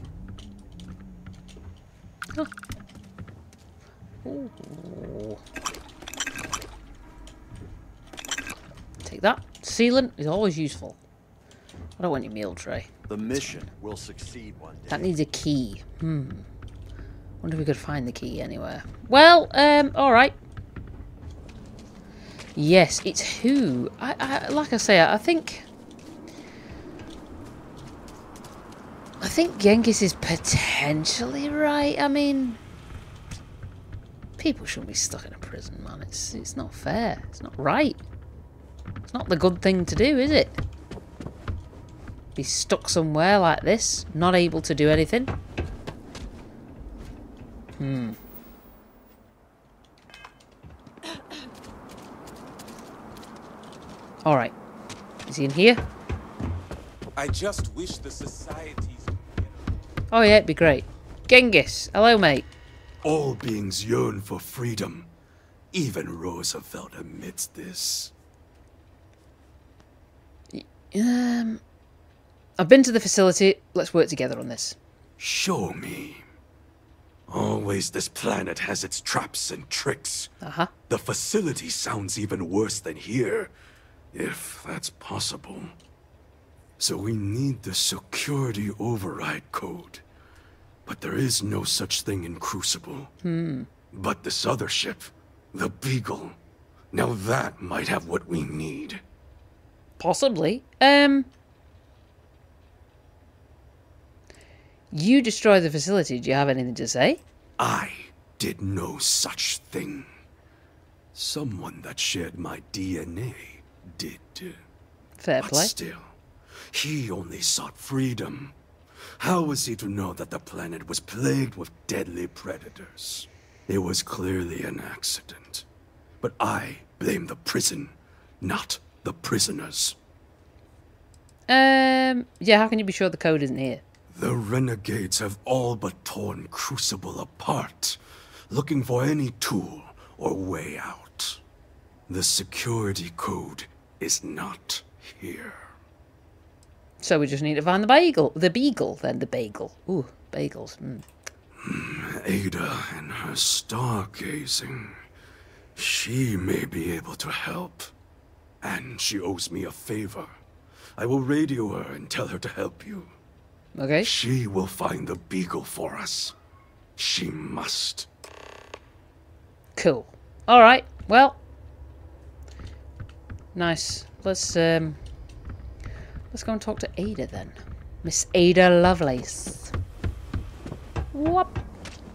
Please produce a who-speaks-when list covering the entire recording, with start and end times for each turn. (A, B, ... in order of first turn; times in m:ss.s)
0:04.2-0:05.4 A
0:09.0-0:11.0 A
0:12.0-0:13.7 A
0:13.1-0:15.1 B
0:14.9-0:16.5 A
0:17.4-0:20.3 A
0:22.6-0:25.6 A
0:29.2-0:32.6 A
0:34.4-0:38.0 A
0:39.1-0:40.6 A
0:42.3-0:45.3 A
0:47.8-0:48.2 A
0:54.2-0:54.5 A
0:55.2-0:55.8 A
0:57.2-0:59.1 C
1:00.1-1:02.5 A
1:03.0-1:05.1 D
1:05.7-1:08.1 D
1:10.5-1:11.6 A
1:12.6-1:14.8 A
1:15.2-1:16.2 D
1:17.3-1:20.3 D
1:20.4-1:20.7 A
1:20.9-1:23.5 D
1:24.1-1:25.7 D
1:26.8-1:30.0 D
1:30.8-1:33.1 D
1:33.2-1:33.7 A
1:33.9-1:36.4 D
1:36.9-1:39.0 D
1:40.0-1:41.3 A
1:44.9-1:47.2 A
1:47.6-1:50.1 D
1:51.1-1:54.6 D
1:55.2-1:55.7 A
1:55.4-1:56.1 D
1:56.7-1:58.5 D
1:59.2-2:05.6 D
2:06.2-2:10.0 D
2:11.5-2:13.8 A
2:14.1-2:18.0 D
2:18.5-2:21.4 D
2:22.1-2:25.6 D
2:27.0-2:31.0 A
2:31.6-2:35.0 D
2:35.8-2:37.9 D
2:38.6-2:40.3 D
2:41.0-2:43.1 D
2:43.7-2:44.1 A
2:44.0-2:46.3 D
2:47.0-2:48.1 D
2:49.8-2:51.4 A
2:53.5-2:55.0 A
2:56.3-2:59.7 A
3:01.1-3:01.5 A